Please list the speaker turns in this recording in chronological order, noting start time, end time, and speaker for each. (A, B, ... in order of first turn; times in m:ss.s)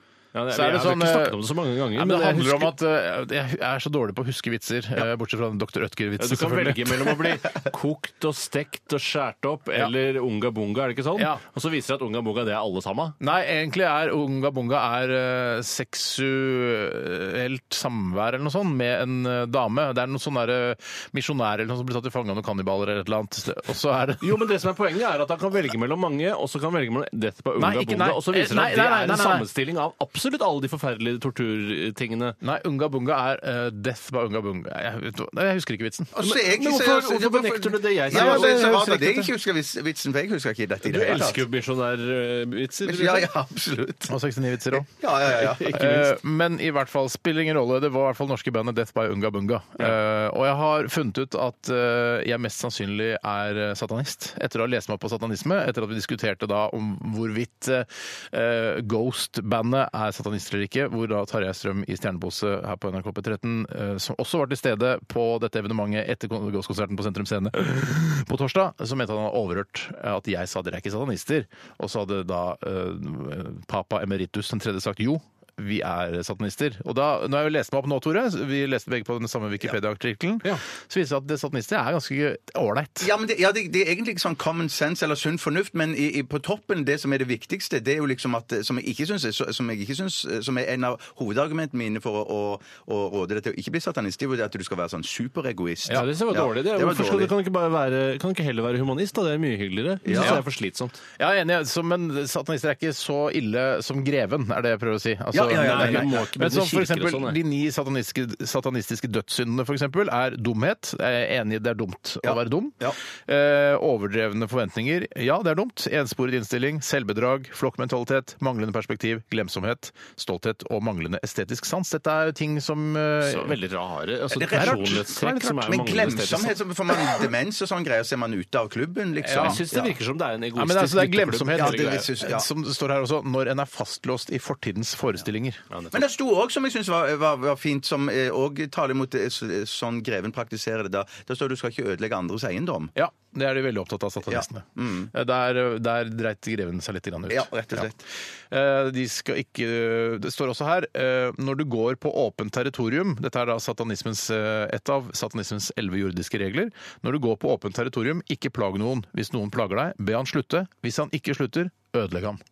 0:00.3-0:02.7 A
0:00.5-0:07.2 B
0:06.2-0:13.2 A
0:11.2-0:11.4 B
0:13.2-0:24.4 B
0:24.2-0:32.4 A
0:27.6-0:29.5 B
0:32.4-0:36.1 B
0:36.2-0:41.5 C
0:36.2-0:38.9 A
0:38.1-0:39.3 B
0:40.8-0:43.3 A
0:42.8-0:44.2 C
0:44.1-0:44.9 B
0:44.7-0:45.9 C
0:45.3-0:46.2 A
0:45.6-1:23.1 B
1:23.0-1:37.3 C
1:35.9-1:41.0 A
1:40.0-1:40.4 C
1:40.1-1:40.4 B
1:41.2-2:03.6 B
1:45.3-1:46.3 C
1:45.6-1:47.4 A
1:52.2-1:53.0 C
2:03.2-2:06.6 A
2:04.3-2:09.9 C
2:04.5-2:05.7 B
2:09.2-2:09.6 B
2:09.3-2:12.1 A
2:10.6-2:15.6 B
2:11.5-2:12.5 C
2:15.7-2:16.0 A
2:15.9-2:22.9 C
2:23.0-2:27.9 B
2:24.3-2:25.1 C
2:27.3-2:28.0 C
2:28.5-2:42.4 B